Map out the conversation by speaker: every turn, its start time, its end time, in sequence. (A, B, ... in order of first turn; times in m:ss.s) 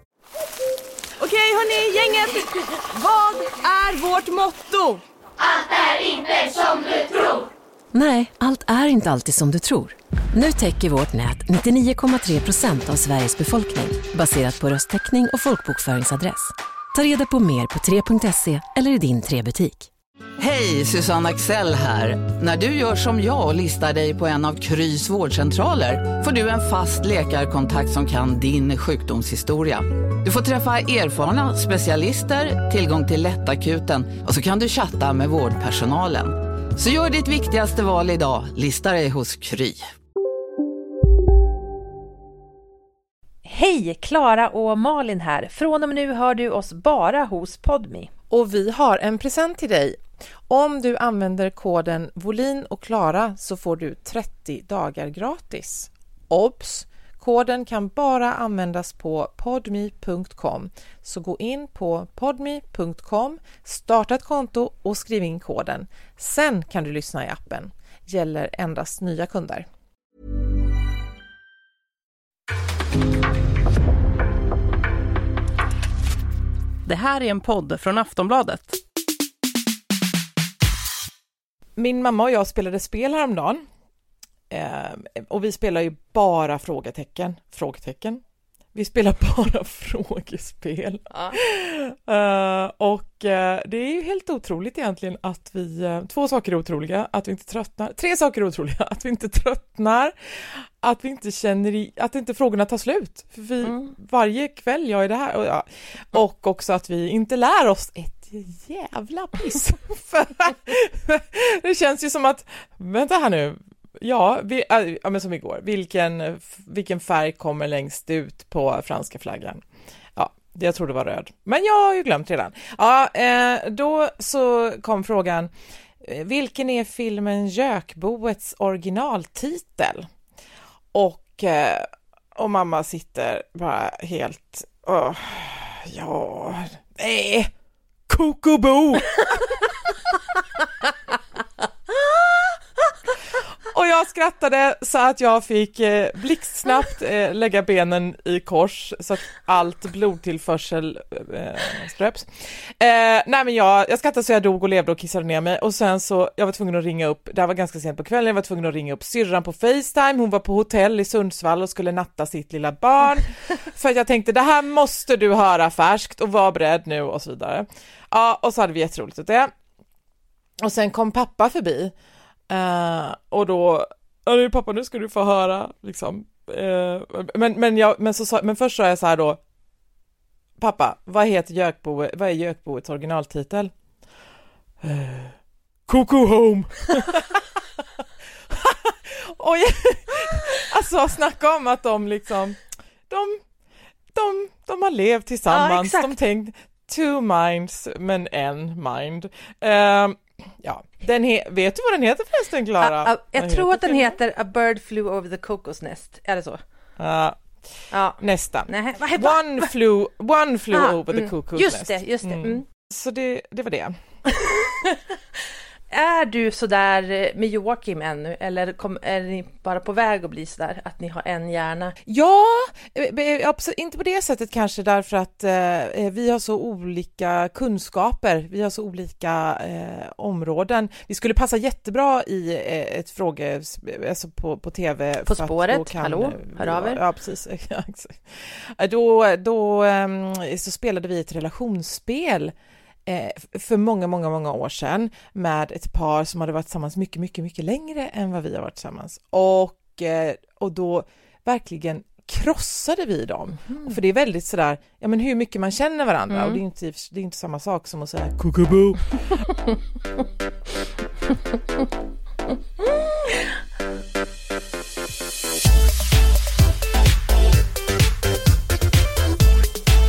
0:01.2-0:05.0 A
0:07.9-0:19.9 B
0:20.4-0:39.8 C
0:43.4-0:48.1 D
0:48.3-1:09.7 E
1:16.8-1:18.8 A
1:21.8-1:23.6 E
1:24.5-1:28.2 E
1:28.7-1:59.6 E
1:31.1-1:31.4 D
1:43.6-1:43.9 D
2:00.2-2:10.1 E
2:10.9-2:17.5 E
2:18.1-2:19.6 E
2:23.7-2:49.5 E
2:50.6-2:51.9 E
2:52.5-2:59.4 E
3:00.6-3:03.7 E
3:04.8-3:05.3 E
3:05.9-3:13.4 E
3:14.1-3:24.2 E
3:15.5-3:16.1 D
3:22.8-3:26.6 D
3:27.0-3:27.4 E
3:27.9-3:29.7 D
3:28.2-3:33.9 E
3:30.7-3:32.6 D
3:34.4-3:35.0 D
3:35.9-3:42.0 D
3:42.0-4:02.5 E
3:55.2-3:57.0 D
4:03.0-4:19.4 E
4:16.3-4:16.6 D
4:23.2-4:23.5 D